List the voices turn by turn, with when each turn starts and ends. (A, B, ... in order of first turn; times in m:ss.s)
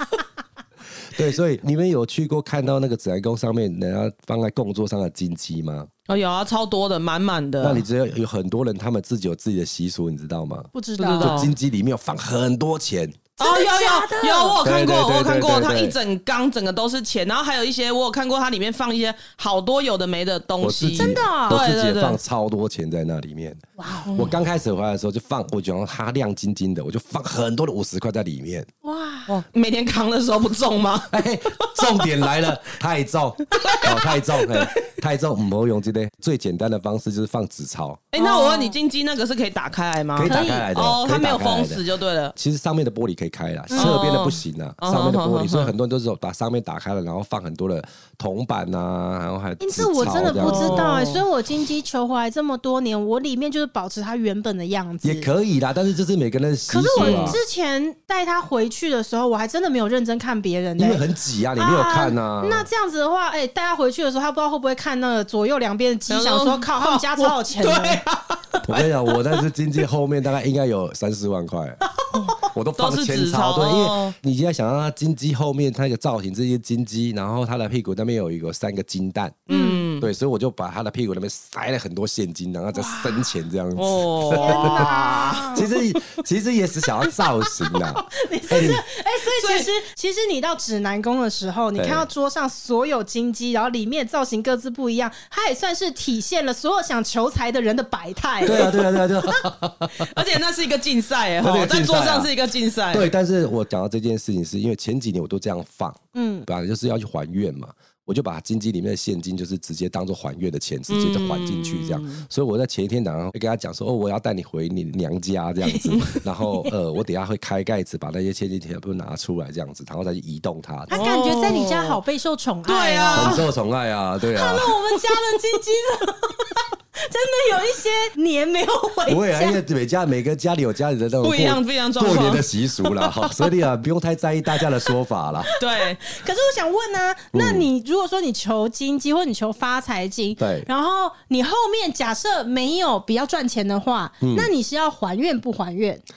0:01.1-0:05.9 A
0:06.1-0:07.8 B
0:07.6-0:13.3 A
0:10.7-0:11.4 C
0:11.0-0:11.5 B
0:13.4-0:14.6 C
0:13.4-0:22.2 B
0:14.6-0:16.0 A
0:20.6-0:23.6 A
0:20.9-0:21.6 C
0:23.8-0:24.3 C
0:24.1-0:28.7 A
0:28.8-0:29.3 C
0:29.3-0:32.0 B
0:31.1-0:38.0 A
0:33.6-0:34.8 B
0:38.1-0:42.3 B
0:38.1-0:38.7 C
0:40.1-0:41.8 A
0:40.2-0:40.7 C
0:42.3-0:51.0 A
0:43.7-0:44.0 C
0:43.7-0:45.7 B
0:49.6-0:55.3 C
0:50.4-0:51.2 B
0:55.0-0:57.4 A
0:56.7-1:01.0 C
0:57.0-0:57.4 B
1:00.8-1:02.7 A
1:01.6-1:08.0 C
1:06.1-1:09.4 B
1:08.6-1:11.8 A
1:12.4-1:19.5 A
1:12.8-1:14.1 B
1:19.5-1:20.1 B
1:19.5-1:19.9 C
1:20.0-1:24.9 A
1:22.7-1:23.3 C
1:23.8-1:25.8 B
1:24.3-1:25.6 C
1:25.5-1:28.8 A
1:27.8-1:38.7 C
1:29.3-1:29.7 B
1:31.8-1:32.1 A
1:38.4-1:40.1 A
1:38.5-1:38.8 B
1:40.0-1:43.1 B
1:41.4-1:42.3 A
1:42.9-2:01.0 A
1:46.1-1:46.4 C
1:50.9-1:52.2 B
1:55.6-1:56.7 C
2:00.9-2:03.4 C
2:00.9-2:02.0 B
2:02.6-2:03.4 B
2:03.1-2:04.8 A
2:04.3-2:09.6 C
2:09.1-2:15.5 A
2:11.2-2:13.3 B
2:15.6-2:16.1 B
2:15.6-2:26.0 C
2:17.3-2:17.7 A
2:20.4-2:20.7 A
2:24.2-2:24.5 A